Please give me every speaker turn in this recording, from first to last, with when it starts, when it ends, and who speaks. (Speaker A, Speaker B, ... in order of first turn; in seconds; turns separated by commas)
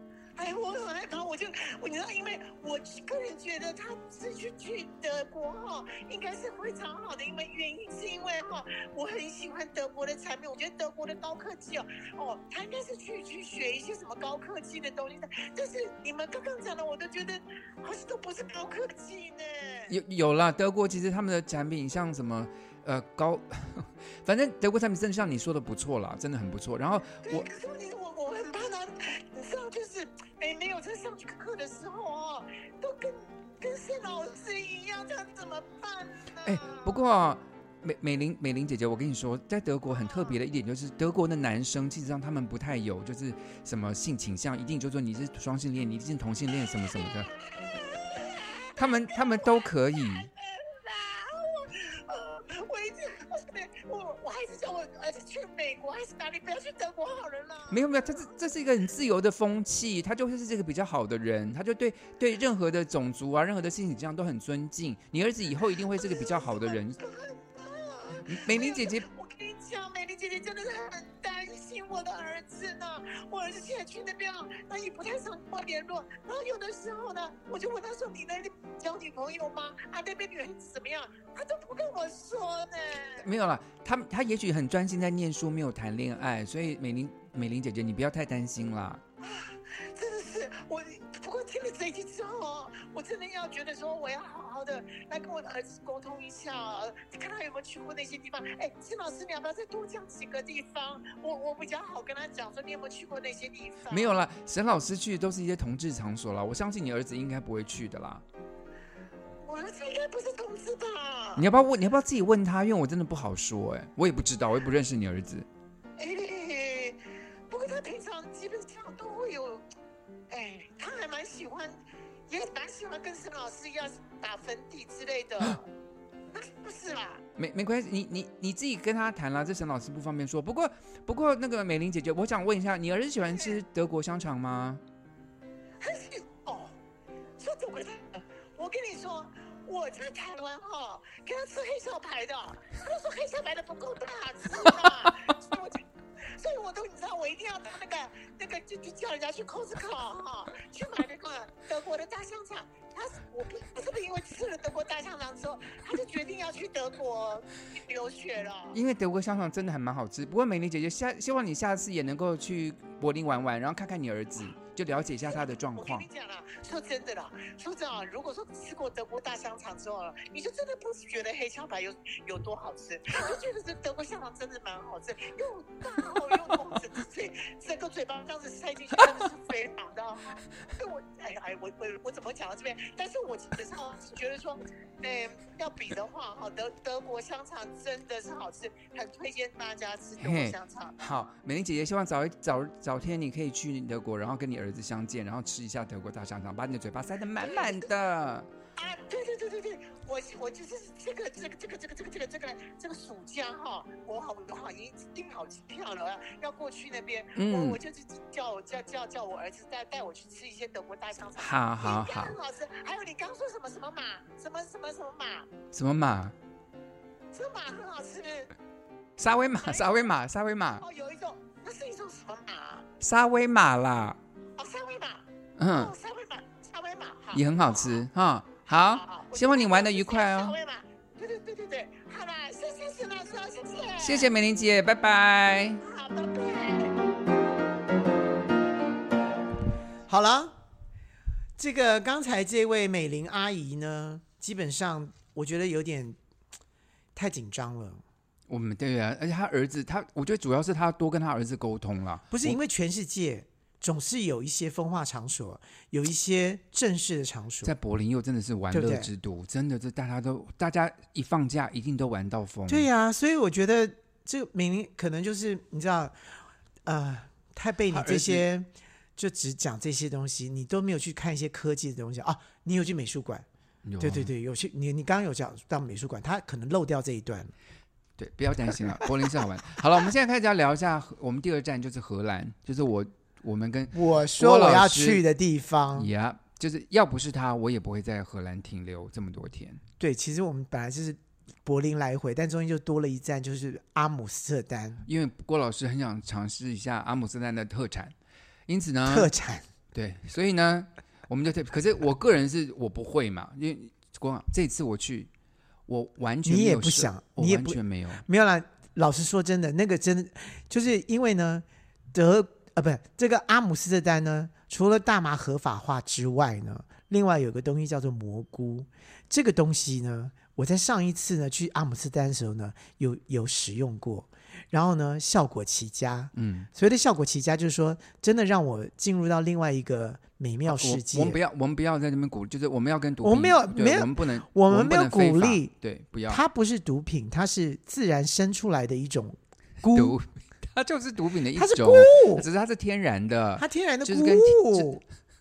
Speaker A: 0.3-19.9, Speaker B: 19.9-27.5, Speaker A: 27.2-36.9, Speaker B: 36.4-47.3, Speaker A: 47.2-58.3, Speaker B: 48.8-50.3, Speaker B: 57.7-67.0, Speaker A: 65.9-83.2, Speaker B: 68.3-69.0, Speaker B: 83.2-89.0, Speaker A: 89.2-104.2, Speaker B: 103.9-108.2, Speaker A: 109.4-111.5, Speaker B: 111.3-115.5, Speaker A: 116.0-119.6, Speaker A: 120.3-125.7, Speaker A: 126.3-127.2, Speaker B: 127.3-134.8, Speaker A: 135.8-136.8, Speaker A: 137.4-158.8, Speaker B: 158.7-166.1, Speaker A: 165.3-190.9, Speaker B: 190.2-198.5, Speaker A: 197.4-197.9, Speaker A: 198.8-215.5, Speaker B: 207.3-207.8, Speaker B: 211.3-212.3, Speaker B: 215.7-216.3, Speaker A: 217.3-218.5, Speaker B: 219.2-220.8, Speaker A: 219.6-220.0, Speaker A: 220.8-222.8, Speaker B: 223.0-224.2, Speaker A: 224.6-228.0, Speaker B: 225.6-225.9, Speaker B: 227.3-230.6, Speaker A: 228.7-234.3, Speaker B: 234.0-235.8, Speaker A: 235.8-237.0, Speaker C: 240.1-240.5, Speaker C: 241.6-246.2, Speaker C: 247.1-248.0, Speaker B: 248.5-252.6, Speaker C: 252.3-257.7, Speaker B: 257.6-262.9, Speaker C: 258.7-259.1, Speaker C: 262.7-266.1, Speaker C: 266.8-273.4, Speaker B: 267.9-268.4, Speaker B: 273.8-274.3, Speaker C: 274.0-277.5, Speaker B: 278.2-285.2, Speaker C: 283.9-286.1, Speaker B: 285.9-289.8, Speaker C: 290.0-295.0, Speaker B: 295.1-298.1, Speaker B: 298.7-299.3, Speaker C: 299.1-299.6, Speaker B: 299.9-305.3, Speaker B: 305.9-308.2, Speaker C: 306.4-331.4, Speaker B: 326.3-326.7, Speaker B: 330.6-336.4, Speaker C: 333.2-335.7, Speaker C: 336.3-340.2, Speaker B: 339.8-344.9, Speaker C: 341.5-342.5, Speaker C: 343.6-345.0